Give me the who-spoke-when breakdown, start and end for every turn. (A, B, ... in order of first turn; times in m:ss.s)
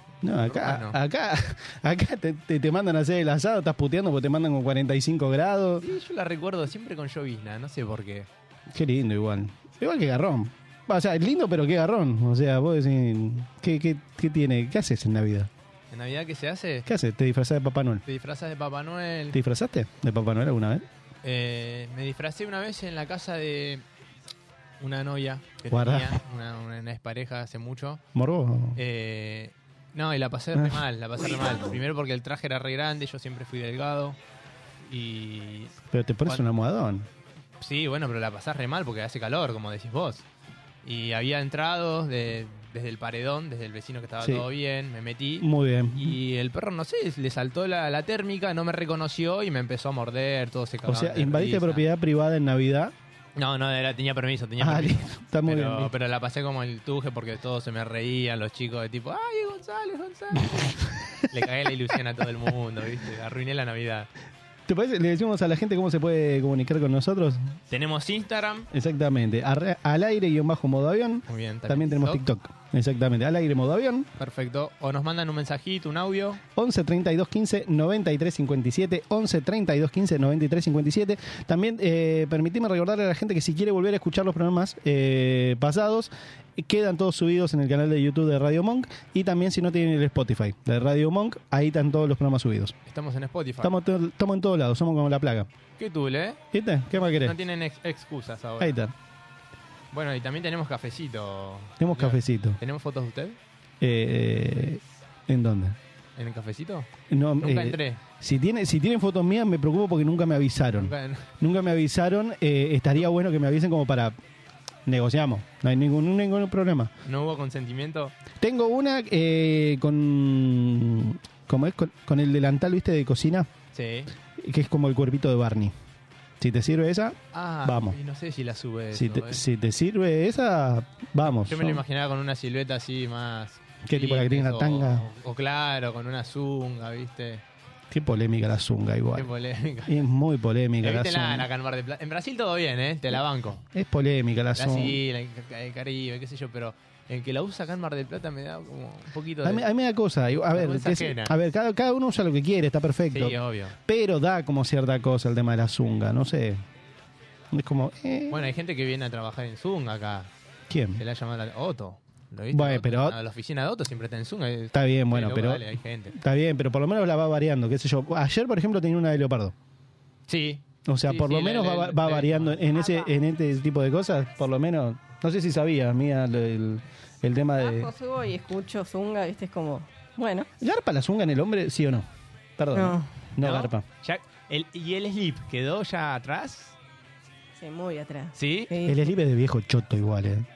0:00.2-0:05.8 A
0:00.4-0:01.0 B
0:05.8-0:08.3 B
0:08.7-0:15.5 A
0:15.9-0:16.8 B
0:16.8-0:18.0 A
0:18.1-0:19.4 B
0:19.3-0:20.8 A
0:21.2-0:23.8 B
0:24.8-0:28.0 B
0:25.7-0:26.1 A
0:28.1-0:28.8 A
0:28.8-0:34.2 B
0:30.5-0:31.8 A
0:34.8-0:35.7 B
0:35.9-0:37.1 A
0:37.6-0:40.2 B
0:40.8-0:51.8 B
0:45.4-0:46.2 A
0:50.8-0:52.9 A
0:53.4-1:00.8 B
0:54.6-0:55.9 A
1:01.3-1:04.1 B
1:04.7-1:07.5 A
1:07.7-1:08.7 B
1:08.7-1:14.1 A
1:11.3-1:12.2 B
1:14.2-1:16.4 B
1:16.6-1:32.7 A
1:32.9-1:33.8 B
1:33.6-1:35.5 A
1:35.8-1:36.4 B
1:36.5-1:37.4 A
1:36.9-1:38.8 B
1:38.6-1:38.9 A
1:39.9-1:43.4 B
1:41.8-1:42.6 A
1:43.8-1:45.8 A
1:46.2-1:46.9 B
1:47.1-1:54.2 A
1:47.4-1:48.0 B
1:50.8-1:51.2 B
1:54.8-1:56.9 A
1:57.0-1:58.1 B
1:58.4-2:03.5 A
2:03.7-2:04.1 B
2:04.4-2:05.7 A
2:06.4-2:08.0 A
2:07.3-2:09.4 B
2:08.9-2:11.8 A
2:11.2-2:17.4 B
2:13.8-2:15.1 A
2:17.9-2:19.3 A
2:19.1-2:20.0 B
2:19.9-2:21.5 A
2:20.8-2:23.6 B
2:23.7-2:25.0 A
2:24.6-2:29.6 B
2:29.4-2:36.6 A
2:30.5-2:31.3 B
2:33.1-2:33.7 B
2:37.5-2:38.4 A
2:38.3-2:40.3 B
2:40.7-2:41.0 A
2:41.0-2:46.1 B
2:42.5-2:43.2 A
2:44.7-2:49.5 A
2:50.3-2:52.6 B
2:50.9-2:57.9 A
2:57.6-3:00.5 C
3:00.6-3:02.1 A
3:02.6-3:03.8 A
3:02.7-3:03.1 C
3:03.4-3:06.7 B
3:07.6-3:09.1 C
3:08.4-3:08.7 B
3:08.8-3:10.5 A